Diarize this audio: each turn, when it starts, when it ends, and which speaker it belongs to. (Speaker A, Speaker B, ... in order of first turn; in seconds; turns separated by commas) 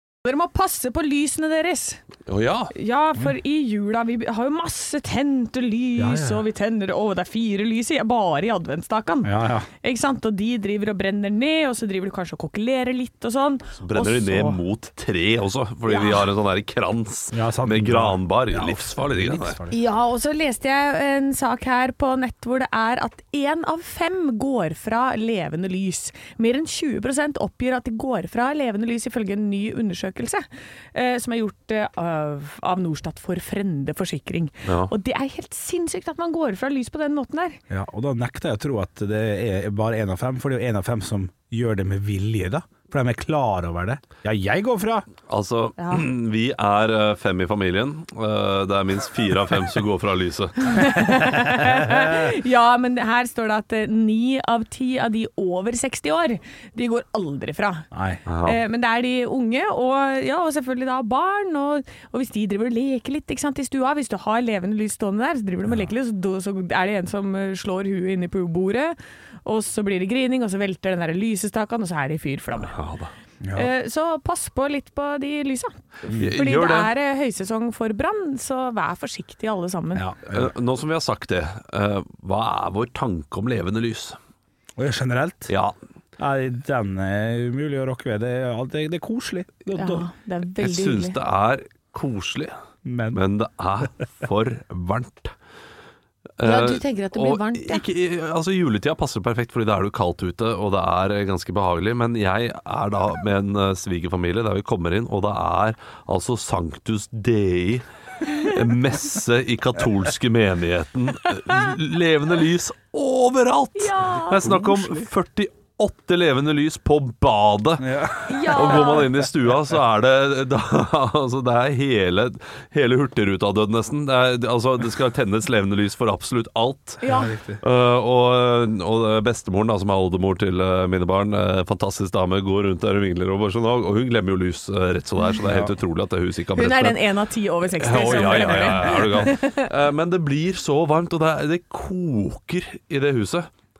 Speaker A: 0.2-2.0, Speaker B: 2.3-2.7, Speaker A: 2.7-14.6, Speaker C: 6.0-6.4, Speaker C: 9.2-9.7, Speaker B: 13.8-19.6, Speaker A: 15.9-16.2, Speaker C: 17.3-19.8, Speaker A: 19.7-37.6, Speaker B: 34.6-34.9, Speaker C: 37.7-45.1, Speaker B: 45.3-51.0, Speaker A: 45.8-46.0, Speaker A: 50.6-57.9, Speaker C: 57.9-58.2, Speaker B: 58.2-58.6, Speaker A: 58.4-72.8, Speaker B: 72.7-73.1, Speaker C: 73.4-73.7, Speaker A: 73.5-80.0, Speaker B: 76.1-76.9, Speaker C: 79.9-80.5, Speaker B: 80.3-84.2, Speaker C: 84.8-85.5, Speaker B: 85.5-85.7, Speaker C: 86.2-90.1, Speaker A: 89.7-91.2, Speaker B: 90.6-92.5, Speaker C: 92.8-93.2, Speaker B: 93.1-95.3, Speaker B: 96.4-127.0, Speaker A: 96.4-97.8, Speaker A: 113.8-114.9, Speaker C: 117.8-119.0, Speaker A: 118.2-119.1, Speaker A: 127.0-127.3, Speaker C: 127.0-127.6, Speaker B: 127.6-137.0, Speaker C: 135.4-135.7, Speaker A: 136.5-139.7, Speaker B: 137.7-143.5